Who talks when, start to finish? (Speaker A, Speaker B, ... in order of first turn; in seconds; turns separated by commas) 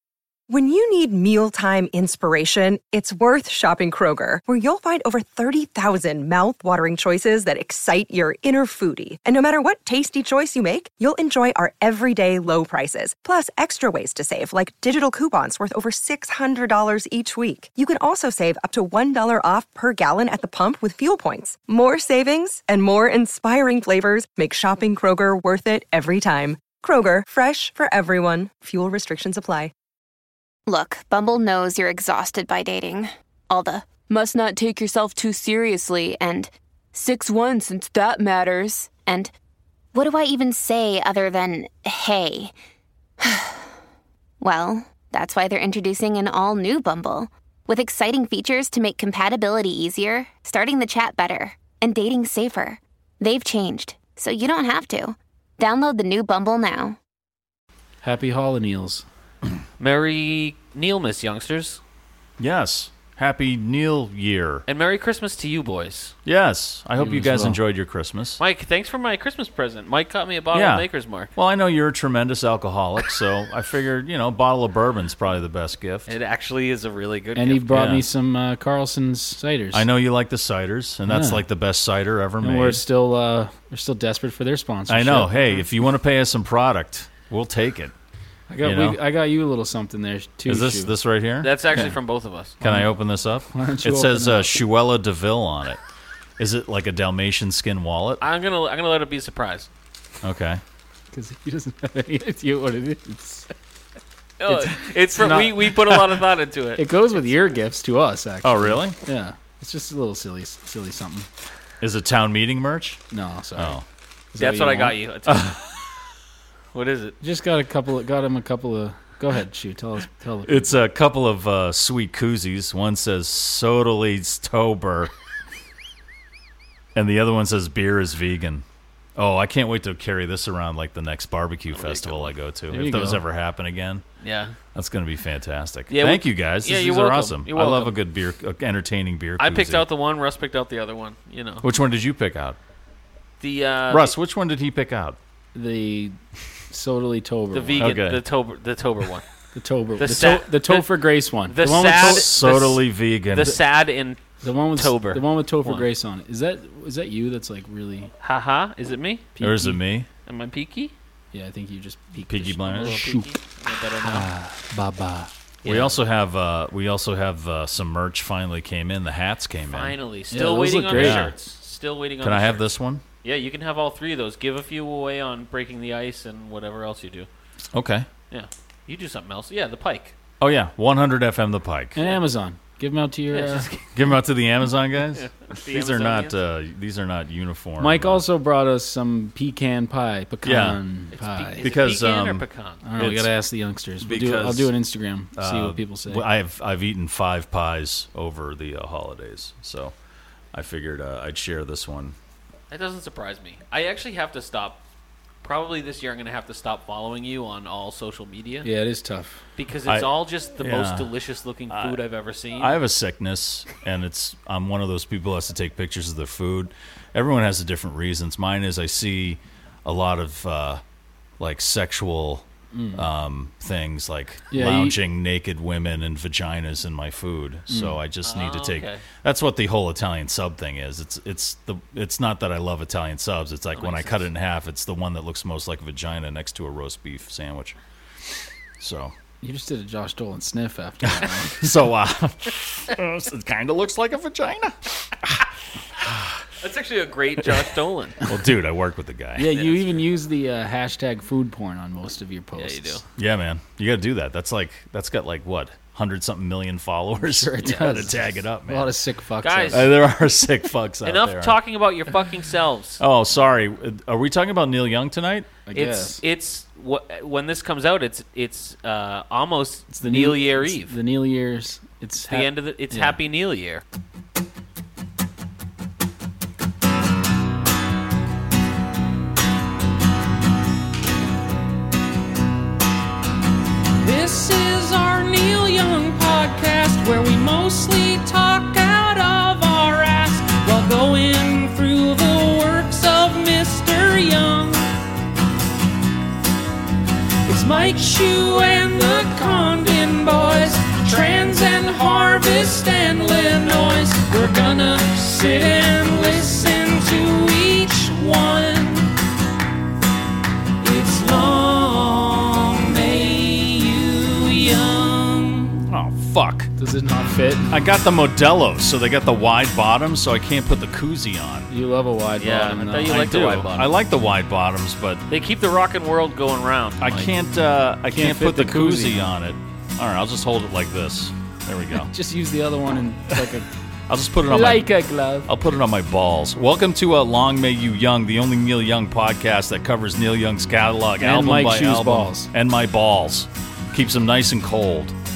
Speaker A: 0.5-29.7, Speaker B: 30.7-39.3, Speaker B: 39.9-42.5, Speaker B: 43.2-43.7, Speaker B: 44.4-57.0, Speaker C: 58.0-59.0, Speaker D: 59.8-61.8, Speaker E: 62.4-64.6, Speaker D: 64.7-66.1, Speaker E: 66.2-68.4, Speaker C: 67.0-67.6, Speaker D: 68.4-71.3, Speaker E: 70.5-76.1, Speaker D: 76.1-77.7, Speaker C: 77.3-79.8, Speaker E: 77.7-78.0, Speaker E: 79.7-82.8, Speaker C: 81.1-81.4, Speaker C: 82.4-85.6, Speaker E: 84.9-87.9, Speaker C: 88.5-90.9, Speaker E: 88.6-89.0, Speaker E: 90.5-91.9, Speaker D: 91.4-92.6, Speaker E: 92.6-95.8, Speaker C: 92.6-92.9, Speaker C: 93.5-94.6, Speaker E: 96.4-98.2, Speaker D: 98.2-99.7, Speaker E: 100.2-100.6, Speaker C: 101.1-103.5, Speaker D: 104.4-106.8, Speaker C: 104.5-106.0, Speaker C: 106.8-111.3, Speaker E: 108.4-109.0, Speaker E: 111.8-113.0, Speaker C: 113.1-113.8, Speaker E: 113.6-113.8, Speaker C: 114.3-115.0, Speaker D: 114.4-115.6, Speaker E: 115.3-115.6, Speaker D: 116.7-117.2, Speaker C: 117.2-120.7, Speaker E: 120.5-125.1, Speaker E: 126.9-128.6, Speaker E: 129.2-134.0, Speaker D: 131.7-132.3, Speaker C: 132.7-133.2, Speaker D: 134.2-134.6, Speaker E: 134.7-139.8, Speaker D: 135.9-137.9, Speaker D: 139.4-141.7, Speaker E: 141.6-142.6, Speaker D: 143.4-144.1, Speaker E: 143.9-145.2, Speaker C: 145.5-146.2, Speaker C: 146.7-147.9, Speaker D: 147.5-149.3, Speaker E: 147.8-148.2, Speaker C: 149.5-152.7, Speaker D: 150.0-150.9, Speaker D: 151.5-152.7, Speaker E: 151.8-153.6, Speaker D: 153.3-155.8, Speaker C: 154.4-158.1, Speaker D: 158.2-159.3, Speaker C: 159.3-159.8, Speaker E: 159.4-160.1, Speaker D: 160.2-160.9, Speaker C: 161.3-163.4, Speaker E: 162.3-163.1, Speaker D: 162.7-164.2, Speaker C: 164.0-165.3, Speaker D: 165.6-165.9, Speaker E: 165.6-169.9, Speaker D: 169.7-172.7, Speaker C: 170.3-171.3, Speaker E: 170.9-171.3, Speaker E: 172.2-173.0, Speaker D: 173.2-177.3, Speaker E: 177.7-178.1, Speaker D: 178.3-180.1, Speaker E: 180.4-182.0, Speaker C: 181.9-183.7, Speaker D: 183.3-183.9, Speaker E: 183.9-188.2, Speaker D: 185.1-186.4, Speaker C: 187.8-191.7, Speaker E: 190.4-190.8, Speaker D: 191.2-192.8, Speaker E: 191.6-192.4, Speaker C: 192.8-196.2, Speaker E: 193.0-193.3, Speaker E: 194.0-194.7, Speaker E: 195.3-199.9, Speaker E: 200.5-202.2, Speaker D: 202.7-204.8, Speaker D: 205.4-208.7, Speaker C: 208.6-209.4, Speaker D: 209.6-212.8, Speaker E: 209.8-211.1, Speaker E: 211.7-212.0, Speaker E: 212.6-220.8, Speaker E: 221.4-237.8, Speaker C: 222.7-223.0, Speaker C: 224.5-225.0, Speaker C: 227.7-228.0, Speaker D: 228.2-229.0, Speaker D: 233.8-234.2, Speaker E: 238.8-239.1, Speaker C: 239.4-241.7, Speaker E: 241.1-245.4, Speaker E: 246.0-246.4, Speaker D: 246.6-248.2, Speaker E: 248.2-249.5, Speaker C: 249.4-253.0, Speaker D: 249.5-249.9, Speaker D: 252.6-253.0, Speaker E: 253.2-258.9, Speaker C: 257.2-259.9, Speaker D: 259.4-259.9, Speaker E: 259.7-261.6, Speaker D: 261.0-263.0, Speaker E: 263.0-265.5, Speaker C: 265.7-266.2, Speaker D: 265.7-270.9, Speaker C: 269.9-273.1, Speaker D: 272.3-273.8, Speaker F: 284.0-294.8, Speaker F: 297.4-309.1, Speaker F: 310.8-315.8, Speaker E: 315.9-316.7, Speaker C: 316.8-317.8, Speaker E: 317.7-321.7, Speaker C: 321.7-323.3, Speaker D: 322.4-323.9, Speaker E: 323.0-325.2, Speaker D: 325.3-327.3, Speaker E: 327.0-332.1, Speaker C: 328.1-329.2, Speaker C: 332.1-333.7, Speaker E: 334.1-334.9, Speaker C: 334.4-335.5, Speaker E: 335.5-345.1, Speaker C: 341.2-342.5